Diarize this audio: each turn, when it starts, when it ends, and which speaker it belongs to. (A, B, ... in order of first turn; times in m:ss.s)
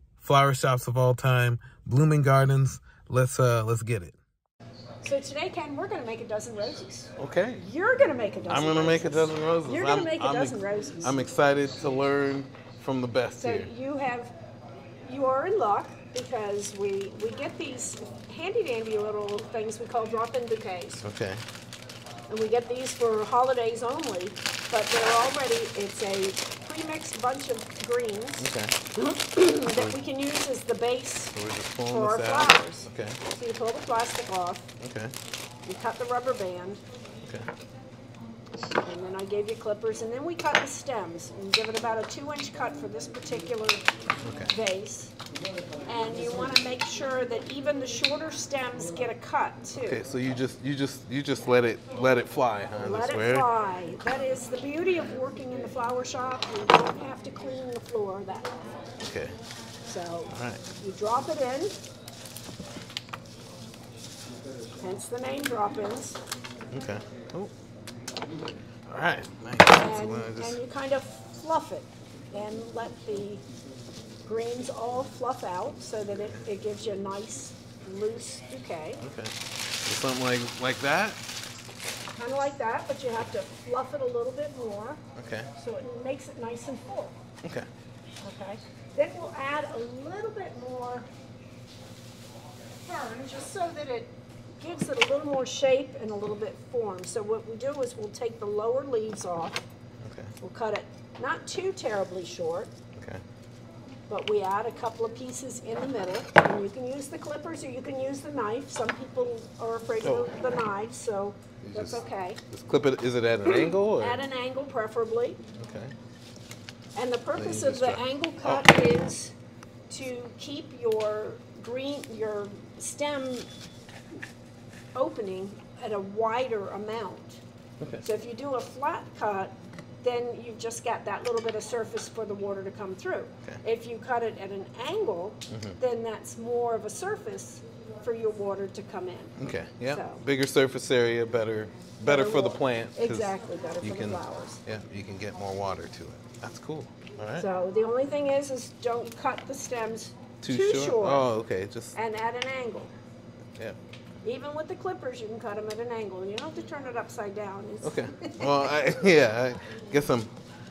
0:00.2-0:04.2 A
0:05.0-0:11.2 B
0:07.2-0:07.6 A
0:08.5-0:13.7 A
0:13.4-0:14.4 B
0:15.0-0:21.0 B
0:21.0-0:21.4 A
0:22.3-0:34.7 B
0:28.4-0:28.8 A
0:31.3-0:33.2 A
0:34.8-0:35.1 A
0:35.6-0:36.8 B
0:38.8-0:43.8 B
0:44.2-0:44.5 A
0:44.5-0:45.1 B
0:45.8-0:50.0 B
0:49.8-0:53.5 A
0:52.8-0:58.8 B
0:59.0-0:59.4 A
0:59.8-1:01.8 B
1:00.3-1:00.6 A
1:04.8-1:06.2 B
1:06.7-1:07.5 A
1:08.8-1:10.6 A
1:09.8-1:13.4 B
1:14.2-1:19.0 B
1:19.0-1:21.2 A
1:22.2-1:25.0 B
1:25.1-1:25.5 A
1:25.6-1:27.2 B
1:27.4-1:27.7 A
1:28.2-1:31.1 B
1:32.8-1:39.6 B
1:40.0-1:40.3 A
1:40.4-1:42.7 B
1:42.9-1:43.2 A
1:44.1-1:52.4 B
1:50.0-1:50.3 A
1:51.6-1:54.2 A
1:53.5-1:55.4 B
1:55.6-1:55.9 A
1:56.9-1:59.3 B
1:57.4-1:58.6 A
1:59.9-2:03.5 B
2:04.9-2:07.4 B
2:07.8-2:08.0 A
2:08.0-2:19.3 B
2:15.5-2:15.8 A
2:19.4-2:27.5 A
2:19.9-2:20.2 B
2:22.0-2:24.6 B
2:27.4-2:31.3 B
2:30.4-2:31.9 A
2:31.9-2:32.9 B
2:34.2-2:38.9 B
2:37.8-2:40.3 A